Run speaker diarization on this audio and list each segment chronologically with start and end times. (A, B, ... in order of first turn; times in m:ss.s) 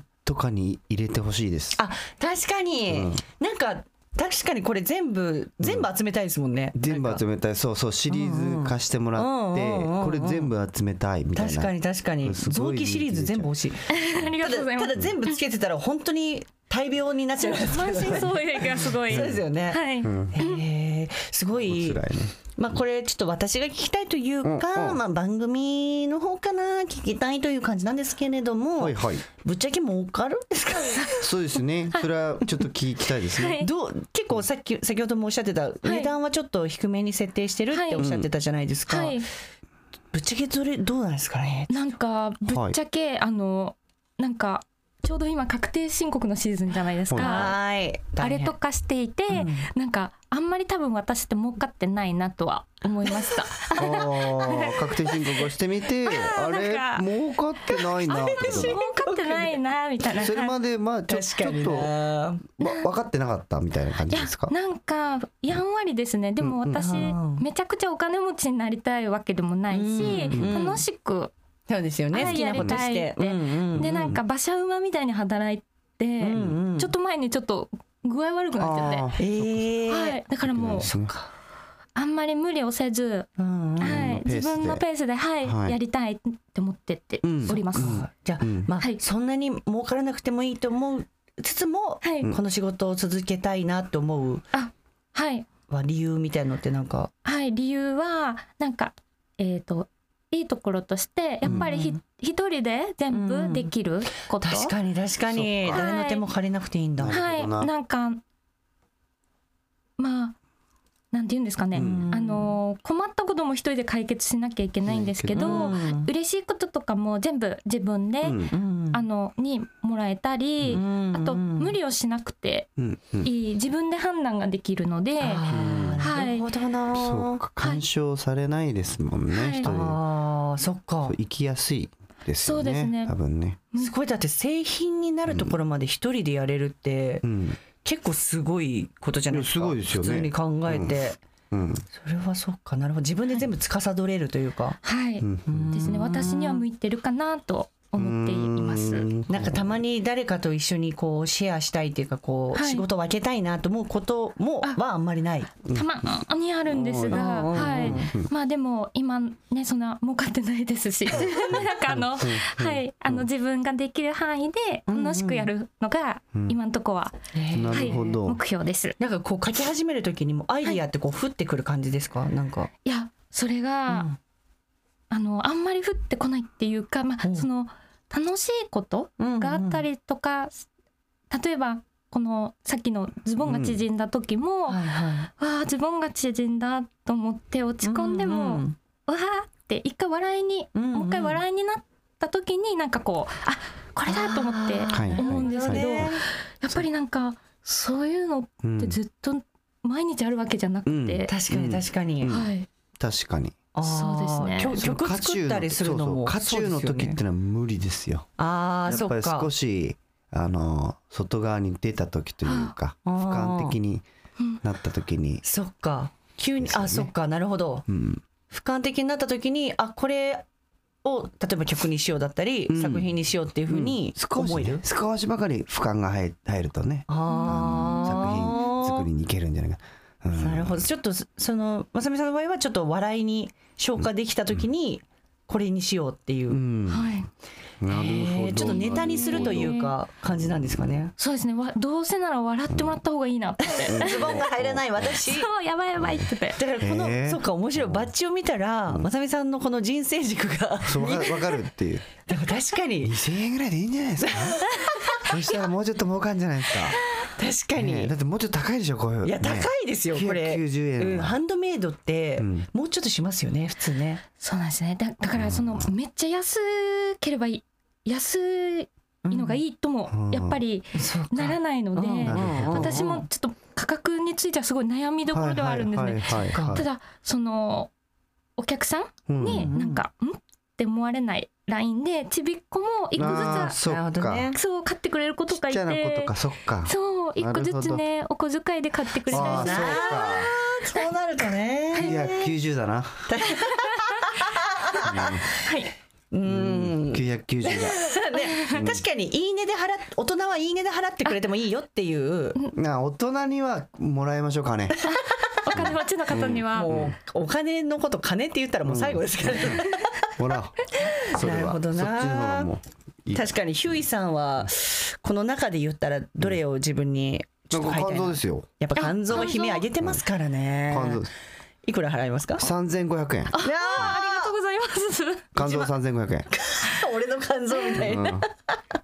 0:00.2-0:01.8 A
0:01.8-0:07.2 B
0:02.9-0:03.2 A
0:05.6-0:05.9 A
0:06.8-0:13.5 A
0:08.1-0:10.5 B
0:11.3-0:31.3 B
0:13.9-0:15.4 C
0:17.4-0:20.6 C
0:19.0-0:19.5 A
0:20.0-0:20.4 A
0:21.6-0:22.4 A
0:24.4-0:25.0 A
0:28.8-0:29.2 A
0:31.2-0:33.6 A
0:33.4-0:33.7 C
0:33.6-0:39.2 B
0:35.8-0:36.1 C
0:37.7-0:38.0 C
0:38.0-0:38.3 A
0:38.9-0:39.3 C
0:40.1-0:41.8 B
0:41.7-0:47.6 C
0:42.4-0:42.8 A
0:47.1-0:47.5 A
0:47.2-0:48.5 B
0:48.2-0:54.8 C
0:49.3-0:49.7 B
0:53.8-0:58.8 A
0:56.1-0:57.1 C
0:57.7-1:00.5 C
0:58.1-0:59.6 B
1:00.2-1:01.9 A
1:01.1-1:02.4 B
1:02.6-1:04.5 A
1:02.6-1:02.9 C
1:04.1-1:11.3 C
1:06.4-1:06.8 A
1:06.8-1:07.5 B
1:09.7-1:10.8 B
1:10.0-1:10.7 A
1:11.7-1:14.1 B
1:12.1-1:19.1 C
1:12.2-1:12.8 A
1:13.8-1:14.2 A
1:16.2-1:16.9 B
1:16.3-1:16.6 A
1:18.6-1:19.8 A
1:19.2-1:20.2 B
1:19.9-1:20.9 C
1:20.4-1:21.1 A
1:20.7-1:21.3 B
1:22.0-1:28.0 C
1:23.4-1:24.1 B
1:23.8-1:24.8 A
1:25.4-1:25.8 A
1:27.2-1:28.7 A
1:27.5-1:34.4 B
1:32.0-1:32.3 C
1:34.5-1:35.5 C
1:35.7-1:37.1 B
1:37.2-1:44.7 C
1:41.4-1:42.0 B
1:43.1-1:43.7 B
1:44.4-1:47.2 B
1:45.3-1:45.8 A
1:45.7-1:46.2 C
1:47.0-1:47.7 A
1:47.1-1:48.2 C
1:50.0-1:50.4 C
1:51.1-2:02.7 C
1:51.7-1:52.1 A
1:51.8-1:52.6 B
1:54.9-1:55.8 A
1:55.4-1:56.1 B
1:58.2-1:58.5 A
1:58.5-1:59.0 B
2:00.7-2:01.8 B
2:02.8-2:03.3 A
2:03.2-2:05.4 C
2:05.2-2:07.4 B
2:05.5-2:06.1 A
2:06.0-2:06.5 C
2:06.9-2:10.0 A
2:09.3-2:09.7 C
2:09.6-2:11.2 B
2:11.1-2:13.6 A
2:12.4-2:13.2 C
2:13.8-2:17.3 B
2:15.3-2:15.6 A
2:17.2-2:17.6 A
2:17.8-2:21.2 B
2:19.3-2:21.0 A
2:21.5-2:21.8 A
2:22.0-2:24.8 B
2:24.8-2:29.1 C
2:25.2-2:26.1 A
2:25.5-2:26.6 B
2:27.9-2:29.8 A
2:29.3-2:35.5 B
2:32.5-2:32.8 C
2:35.7-2:38.3 A
2:35.7-2:47.2 C
2:37.1-2:38.1 B
2:41.2-2:43.2 A
2:44.9-2:45.5 B
2:47.3-2:48.2 B
2:47.5-2:48.4 A
2:47.7-2:49.0 C
2:49.0-2:52.7 B
2:52.8-2:54.1 C
2:53.9-2:54.2 B
2:55.1-3:00.7 C
2:59.2-2:59.9 B
3:01.3-3:04.9 C
3:03.4-3:03.8 A
3:04.7-3:05.3 B
3:05.4-3:21.3 C
3:07.8-3:08.8 B
3:10.8-3:11.4 B
3:14.0-3:16.2 B
3:14.9-3:16.2 A
3:18.6-3:19.0 A
3:20.9-3:23.6 A
3:21.3-3:22.3 B
3:22.3-3:22.7 C
3:23.7-3:27.2 B
3:23.8-3:24.8 C
3:24.8-3:28.3 A
3:28.4-3:29.5 B
3:28.9-3:34.0 A
3:32.5-3:32.7 C
3:33.0-3:33.8 B
3:34.6-3:35.4 A
3:35.4-3:37.9 B
3:36.6-3:37.1 A
3:37.9-3:38.2 A
3:38.5-3:40.4 B
3:41.0-3:44.8 B
3:42.7-3:43.2 A
3:43.7-3:50.8 A
3:47.1-3:49.1 B
3:47.3-3:48.4 C
3:50.4-3:56.6 B
3:56.5-3:57.3 A
3:56.9-3:57.3 C
3:57.8-4:01.0 A
3:57.9-4:01.1 B
3:58.6-3:59.9 C
4:01.2-4:04.4 C
4:02.7-4:03.0 A
4:03.6-4:05.5 B
4:03.9-4:05.2 A
4:05.1-4:06.6 C
4:06.0-4:08.1 A
4:06.6-4:11.6 B
4:10.8-4:12.2 A
4:12.3-4:13.2 B
4:13.0-4:17.0 A
4:14.2-4:15.3 B
4:16.8-4:18.1 B
4:17.8-4:21.4 A
4:19.2-4:24.2 B
4:22.4-4:22.7 A
4:24.4-4:37.9 C
4:25.3-4:25.9 A
4:29.2-4:29.6 B
4:30.1-4:30.6 A
4:31.0-4:33.3 B
4:32.3-4:33.1 A
4:35.3-4:36.8 A
4:36.5-4:36.8 B
4:38.6-4:43.8 C
4:39.3-4:39.7 A
4:39.4-4:40.0 B
4:43.2-4:44.5 A
4:43.2-4:44.6 B
4:44.6-4:46.3 C
4:45.5-4:48.0 A
4:46.8-4:50.3 C
4:49.3-4:50.5 A
4:49.3-4:52.5 B
4:52.0-4:53.3 A
4:53.3-4:55.5 B
4:53.6-4:54.3 C
4:55.0-4:55.5 A
4:55.6-4:55.9 C
4:56.3-5:02.6 B
4:56.4-4:58.0 A
4:58.4-4:58.8 C
4:58.8-4:59.0 A
5:02.8-5:05.0 A
5:05.1-5:06.9 C
5:05.1-5:05.9 B
5:05.7-5:07.2 A
5:06.7-5:10.3 B
5:08.8-5:13.5 A
5:11.0-5:12.7 B
5:13.3-5:21.3 B
5:17.7-5:18.7 A
5:19.0-5:19.9 C
5:20.9-5:21.3 A
5:21.9-5:22.7 B
5:22.6-5:24.1 A
5:23.5-5:25.9 C
5:23.6-5:24.5 B
5:25.6-5:26.5 A
5:26.5-5:28.8 B
5:28.0-5:28.5 A